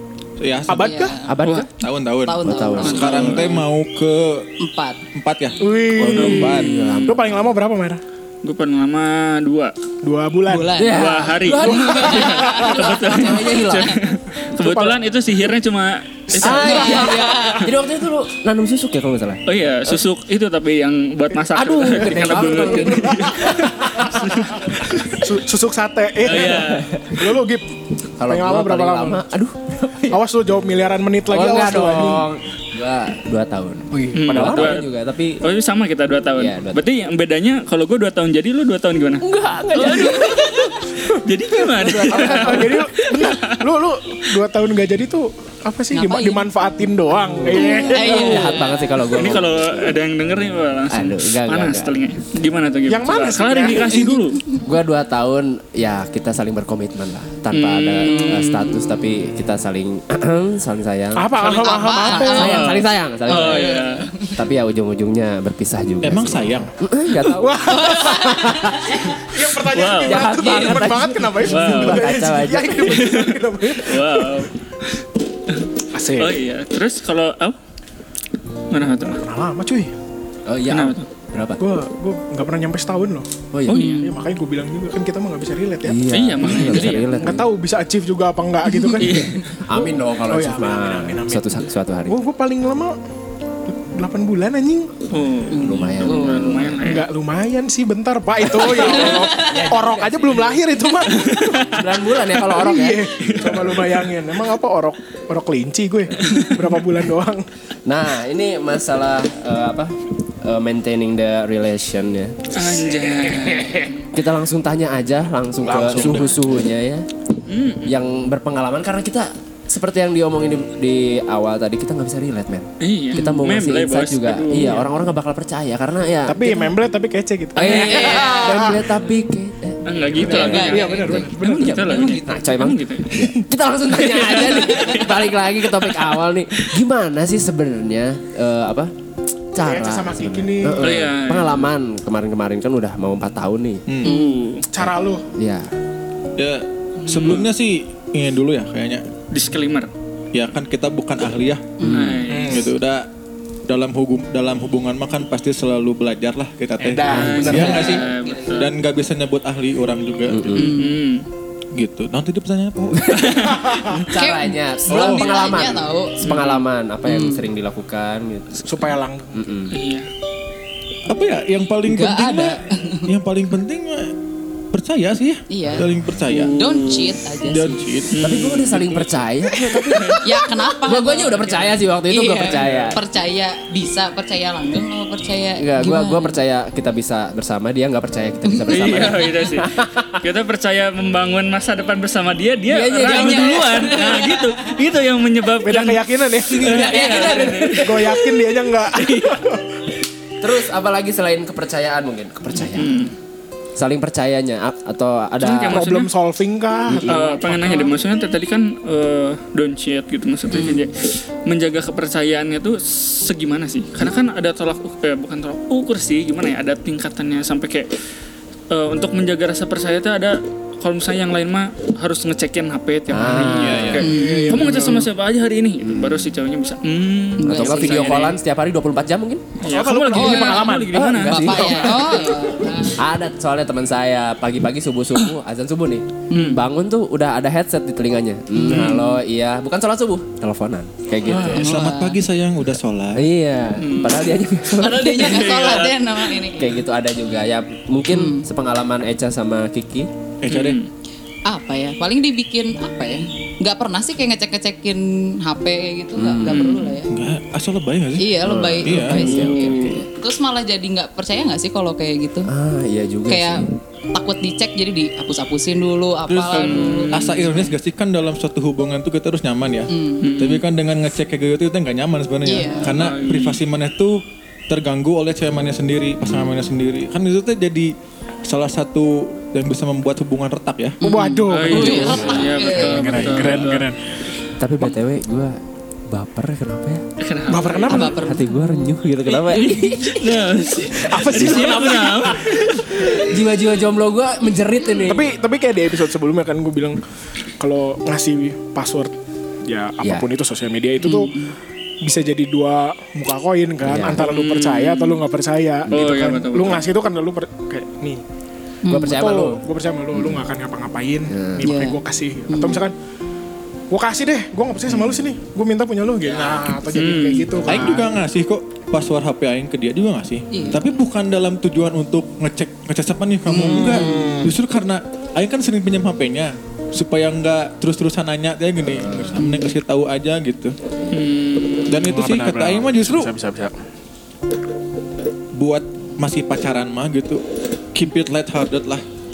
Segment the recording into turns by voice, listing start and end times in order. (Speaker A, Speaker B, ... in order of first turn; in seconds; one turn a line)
Speaker A: 0.4-0.9
Speaker B: 0.7-1.2
Speaker C: 0.8-1.6
Speaker D: 1.3-1.7
Speaker A: 1.7-4.5
Speaker C: 2.2-3.5
Speaker D: 2.4-3.4
Speaker E: 2.8-3.6
Speaker C: 4.6-5.0
Speaker A: 5.1-6.7
Speaker B: 5.6-8.0
Speaker E: 6.1-7.2
Speaker D: 6.1-7.5
Speaker E: 8.4-9.7
Speaker B: 10.0-10.8
Speaker C: 10.5-14.0
Speaker D: 10.7-14.0
Speaker E: 10.9-17.1
Speaker B: 14.6-15.0
Speaker D: 16.4-19.4
Speaker C: 16.4-17.7
Speaker E: 19.5-25.1
Speaker D: 21.5-24.2
Speaker B: 25.2-29.2
Speaker E: 26.2-26.9
Speaker D: 26.4-27.2
Speaker D: 28.2-30.2
Speaker B: 30.1-32.3
Speaker D: 31.3-35.4
Speaker B: 33.9-34.7
Speaker E: 34.1-34.9
Speaker E: 35.4-43.7
Speaker D: 36.4-36.8
Speaker D: 39.2-41.0
Speaker B: 41.8-48.6
Speaker D: 41.9-42.7
Speaker C: 45.9-46.5
Speaker D: 47.1-50.0
Speaker C: 47.5-49.0
Speaker E: 48.9-54.4
Speaker D: 50.9-52.0
Speaker B: 52.9-54.2
Speaker D: 54.6-61.4
Speaker E: 57.5-58.8
Speaker C: 58.0-58.4
Speaker B: 61.1-62.7
Speaker C: 61.4-62.7
Speaker E: 62.0-64.1
Speaker D: 62.1-69.1
Speaker C: 63.4-64.3
Speaker A: 66.0-66.7
Speaker B: 67.4-68.3
Speaker C: 67.7-69.2
Speaker B: 69.2-74.5
Speaker E: 69.6-70.7
Speaker D: 69.9-73.0
Speaker E: 71.4-72.1
Speaker E: 72.8-74.9
Speaker E: 75.5-77.6
Speaker B: 75.9-76.4
Speaker E: 78.7-79.2
Speaker B: 79.2-79.9
Speaker D: 80.5-81.6
Speaker E: 80.7-81.1
Speaker B: 81.6-83.3
Speaker D: 83.5-83.9
Speaker C: 83.7-84.1
Speaker E: 83.7-84.1
Speaker B: 84.0-86.0
Speaker D: 85.8-87.5
Speaker E: 86.1-87.2
Speaker B: 86.6-89.8
Speaker E: 89.0-89.4
Speaker D: 89.1-92.2
Speaker B: 90.3-93.0
Speaker B: 93.7-94.9
Speaker E: 95.1-97.1
Speaker C: 95.5-96.8
Speaker D: 95.6-96.5
Speaker B: 96.8-101.8
Speaker C: 98.8-99.7
Speaker D: 99.1-100.5
Speaker D: 101.6-103.8
Speaker B: 102.4-107.4
Speaker D: 107.9-112.4
Speaker E: 112.5-114.0
Speaker D: 114.1-117.1
Speaker A: 115.6-116.4
Speaker E: 117.5-118.0
Speaker D: 117.8-126.8
Speaker E: 122.8-124.9
Speaker C: 123.1-123.4
Speaker B: 126.3-128.9
Speaker E: 127.5-128.5
Speaker D: 127.6-138.9
Speaker C: 127.7-128.8
Speaker E: 129.8-133.3
Speaker C: 130.2-131.2
Speaker B: 130.3-132.2
Speaker C: 131.8-132.4
Speaker E: 134.0-136.6
Speaker C: 134.7-135.0
Speaker D: 139.5-143.8
Speaker B: 139.6-141.1
Speaker E: 140.8-141.7
Speaker A: 143.9-144.1
Speaker C: 144.0-144.5
Speaker E: 144.0-144.7
Speaker B: 144.7-145.3
Speaker D: 144.8-145.7
Speaker A: 146.4-149.1
Speaker E: 147.0-147.5
Speaker E: 149.3-149.9
Speaker A: 150.3-151.8
Speaker C: 151.8-152.1
Speaker D: 151.8-152.3
Speaker E: 151.9-152.7
Speaker B: 152.3-152.7
Speaker A: 152.4-153.1
Speaker A: 153.7-158.0
Speaker B: 156.8-158.0
Speaker D: 157.1-157.8
Speaker E: 157.1-158.7
Speaker C: 157.6-158.7
Speaker A: 158.6-160.6
Speaker D: 160.3-160.7
Speaker E: 160.5-161.3
Speaker C: 160.6-161.0
Speaker A: 161.8-163.4
Speaker D: 163.0-168.7
Speaker E: 163.1-164.0
Speaker B: 163.5-164.0
Speaker C: 164.1-166.3
Speaker A: 164.9-165.3
Speaker E: 166.2-166.7
Speaker C: 167.1-167.4
Speaker B: 168.6-169.4
Speaker D: 169.3-169.7
Speaker E: 169.7-170.1
Speaker A: 171.1-174.1
Speaker C: 171.9-173.1
Speaker A: 174.7-176.6
Speaker C: 175.5-175.9
Speaker E: 176.3-177.2
Speaker C: 176.5-177.9
Speaker A: 177.4-178.2
Speaker E: 178.1-179.1
Speaker D: 178.2-183.0
Speaker E: 179.9-180.2
Speaker C: 180.2-186.4
Speaker E: 182.5-182.8
Speaker D: 185.6-190.2
Speaker C: 188.5-189.0
Speaker E: 188.7-189.7
Speaker E: 190.2-198.3
Speaker D: 192.7-194.0
Speaker C: 192.9-194.7
Speaker B: 195.6-196.9
Speaker C: 196.6-198.1
Speaker D: 196.7-197.6
Speaker B: 197.8-199.7
Speaker E: 198.8-199.4
Speaker D: 200.4-203.1
Speaker E: 202.7-203.1
Speaker D: 203.8-205.9
Speaker E: 205.4-206.1
Speaker B: 205.7-207.2
Speaker D: 206.9-207.9
Speaker E: 207.1-217.9
Speaker C: 210.5-210.9
Speaker E: 218.7-228.4
Speaker D: 223.1-224.0
Speaker A: 223.4-224.1
Speaker C: 224.0-224.9
Speaker B: 224.0-225.1
Speaker D: 225.8-226.3
Speaker C: 227.4-228.3
Speaker D: 227.4-229.5
Speaker E: 229.6-232.5
Speaker B: 229.6-231.1
Speaker C: 230.1-233.0
Speaker D: 230.9-231.9
Speaker D: 233.0-241.7
Speaker C: 236.3-236.6
Speaker C: 238.6-239.2
Speaker E: 241.3-241.6
Speaker C: 241.4-242.2
Speaker A: 241.5-243.3
Speaker D: 243.2-245.6
Speaker E: 243.8-244.4
Speaker C: 244.7-246.8
Speaker E: 245.2-246.0
Speaker D: 246.6-250.1
Speaker C: 248.1-248.5
Speaker A: 250.4-250.8
Speaker E: 250.5-250.9
Speaker C: 251.5-257.1
Speaker D: 256.1-256.8
Speaker E: 256.4-256.9
Speaker A: 257.1-258.3
Speaker C: 258.2-262.5
Speaker D: 258.4-260.0
Speaker A: 258.9-259.2
Speaker E: 259.2-260.0
Speaker D: 262.5-263.7
Speaker C: 263.3-267.7
Speaker A: 266.3-277.9
Speaker E: 266.5-267.6
Speaker C: 269.9-270.3
Speaker E: 270.2-270.6
Speaker C: 272.4-272.9
Speaker E: 272.8-273.6
Speaker D: 276.2-276.7
Speaker A: 278.5-281.0
Speaker C: 281.0-283.3
Speaker B: 281.0-284.0
Speaker E: 281.5-283.9
Speaker D: 282.0-282.5
Speaker D: 284.6-285.6
Speaker D: 286.1-287.0
Speaker E: 287.2-288.1
Speaker B: 287.5-288.2
Speaker C: 287.9-288.9
Speaker D: 287.9-290.2
Speaker E: 289.4-293.1
Speaker C: 289.6-290.2
Speaker B: 291.0-292.6
Speaker D: 291.3-291.7
Speaker D: 293.1-295.3
Speaker B: 295.1-297.0
Speaker B: 297.6-299.1
Speaker B: 299.7-301.3
Speaker C: 301.0-301.5
Speaker B: 302.0-308.2
Speaker D: 303.8-304.3
Speaker E: 304.1-305.2
Speaker E: 305.9-306.8
Speaker C: 308.9-309.2
Speaker D: 308.9-309.6
Speaker B: 309.1-312.9
Speaker D: 310.1-310.4
Speaker D: 311.3-311.7
Speaker C: 311.6-312.0
Speaker C: 312.5-312.8
Speaker B: 313.9-318.1
Speaker D: 316.3-316.7
Speaker E: 316.9-317.6
Speaker A: 317.7-330.8
Speaker C: 320.5-320.9
Speaker C: 323.5-324.4
Speaker B: 323.9-324.5
Speaker D: 328.9-329.5
Speaker E: 331.1-332.1
Speaker A: 331.9-333.3
Speaker B: 332.1-333.8
Speaker A: 335.5-337.4
Speaker A: 337.9-339.0